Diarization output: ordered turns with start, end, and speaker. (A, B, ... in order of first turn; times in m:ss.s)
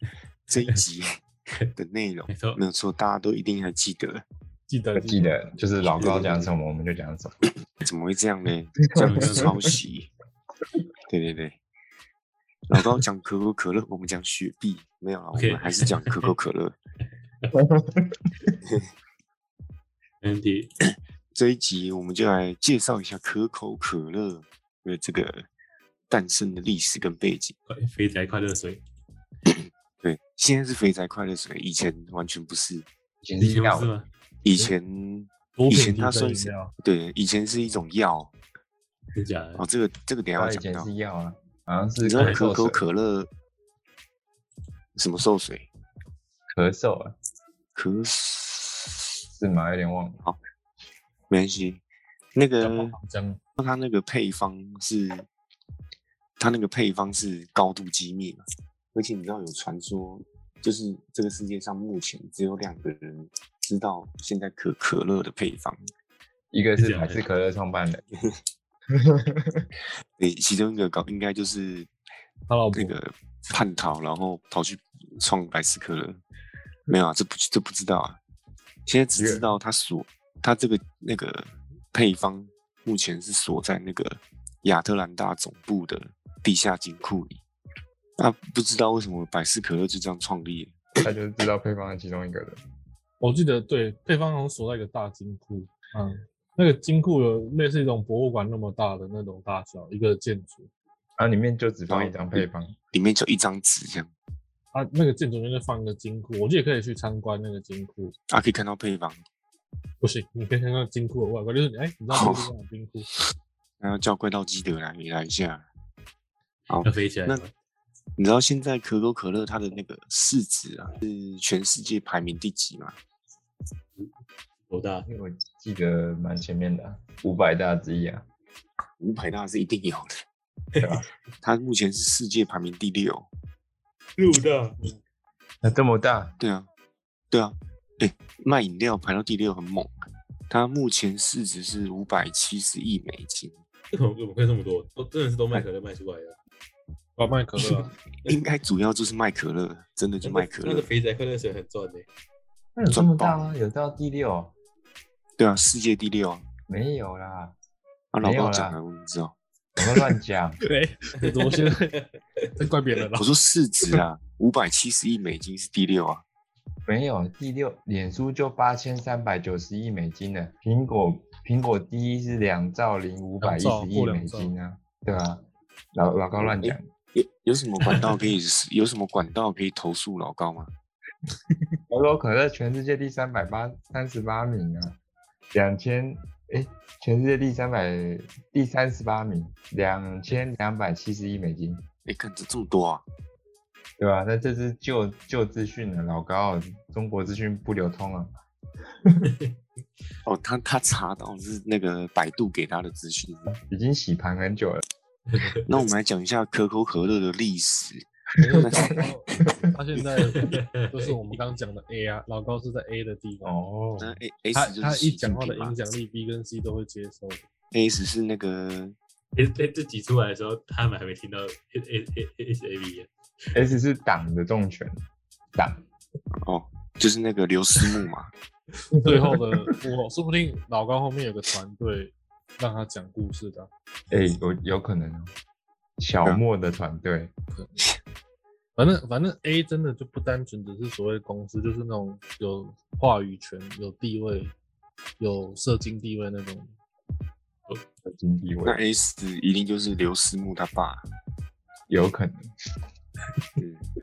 0:00.5-0:01.2 A
0:01.8-0:04.2 A
0:02.3-0:02.6 B
0:04.7-0:05.5 C
0:05.0-0:07.4 D
0:06.0-0:06.3 B
0:07.8-0:10.1 A
0:09.0-0:09.6 D
0:09.0-0:09.6 B
0:11.1-0:11.6 A
0:12.7-0:16.8 A
0:15.3-0:16.3 B
0:17.6-0:18.1 D
0:20.2-0:20.7 B
0:20.8-0:25.5 A
0:26.1-0:27.5 A
0:27.7-0:28.8 B
0:29.5-0:32.9 A
0:33.2-0:33.9 D
0:33.4-0:34.1 B
0:34.4-0:38.3 A
0:35.6-0:36.7 C
0:39.1-0:39.6 B
0:39.6-0:40.9 A
0:40.3-0:42.8 D
0:42.0-0:43.3 A
0:42.2-0:42.4 B
0:45.0-0:45.7 A
0:46.5-0:47.2 D
0:47.8-0:49.0 A
0:49.3-0:50.2 D
0:51.3-0:51.8 A
0:52.3-0:53.0 A
0:52.6-0:53.4 C
0:53.6-0:55.3 A
0:56.4-0:58.4 A
0:58.9-1:05.9 A
1:06.5-1:08.0 D
1:06.8-1:07.2 B
1:08.9-1:09.7 D
1:10.2-1:11.9 A
1:12.5-1:13.0 C
1:12.7-1:16.2 A
1:16.9-1:18.2 A
1:18.9-1:27.4 A
1:19.2-1:19.4 D
1:28.2-1:30.9 A
1:31.0-1:32.6 D
1:33.2-1:40.7 C
1:41.2-1:42.8 D
1:41.9-1:44.1 A
1:44.7-1:48.2 C
1:48.3-1:49.2 A
1:50.0-1:53.1 C
1:52.1-1:52.5 A
1:53.8-1:55.7 A
1:56.7-1:57.4 A
1:56.8-1:57.5 B
1:58.2-2:03.0 A
2:04.7-2:05.1 B
2:05.1-2:08.2 D
2:09.0-2:10.2 A
2:10.7-2:11.0 B
2:10.8-2:11.0 D
2:11.4-2:13.3 A
2:14.2-2:14.8 B
2:15.6-2:16.3 D
2:16.4-2:16.7 A
2:17.3-2:19.9 A
2:20.5-2:23.6 A
2:23.9-2:26.4 B
2:27.2-2:27.9 C
2:27.6-2:30.9 A
2:30.2-2:32.1 B
2:32.8-2:34.5 D
2:32.9-2:33.5 A
2:35.4-2:36.4 A
2:36.7-2:37.6 D
2:38.1-2:39.3 A
2:38.2-2:38.8 D
2:39.8-2:40.7 D
2:40.6-2:42.0 C
2:41.2-2:42.4 B
2:42.6-2:43.3 C
2:43.2-2:46.2 A
2:46.9-2:56.9 D
2:53.4-2:54.5 C
2:56.3-3:00.7 A
2:57.9-2:58.2 B
3:01.9-3:05.0 D
3:05.5-3:11.8 D
3:12.0-3:13.0 A
3:14.0-3:18.3 D
3:19.2-3:19.5 B
3:20.2-3:23.5 A
3:23.5-3:24.8 D
3:25.3-3:25.8 B
3:25.6-3:29.1 A
3:28.4-3:33.5 C
3:28.5-3:29.6 D
3:30.3-3:31.2 B
3:33.4-3:34.2 D
3:34.0-3:35.8 A
3:34.5-3:37.5 C
3:37.7-3:38.9 A
3:39.3-3:43.1 B
3:43.5-3:45.0 D
3:45.6-3:45.8 D
3:46.4-3:48.3 A
3:49.0-3:53.7 C
3:54.1-3:55.3 D
3:56.0-3:57.3 D
3:58.8-4:04.6 C
4:05.2-4:06.7 C
4:08.1-4:08.8 D
4:08.6-4:11.1 A
4:11.9-4:12.5 D
4:13.6-4:13.8 A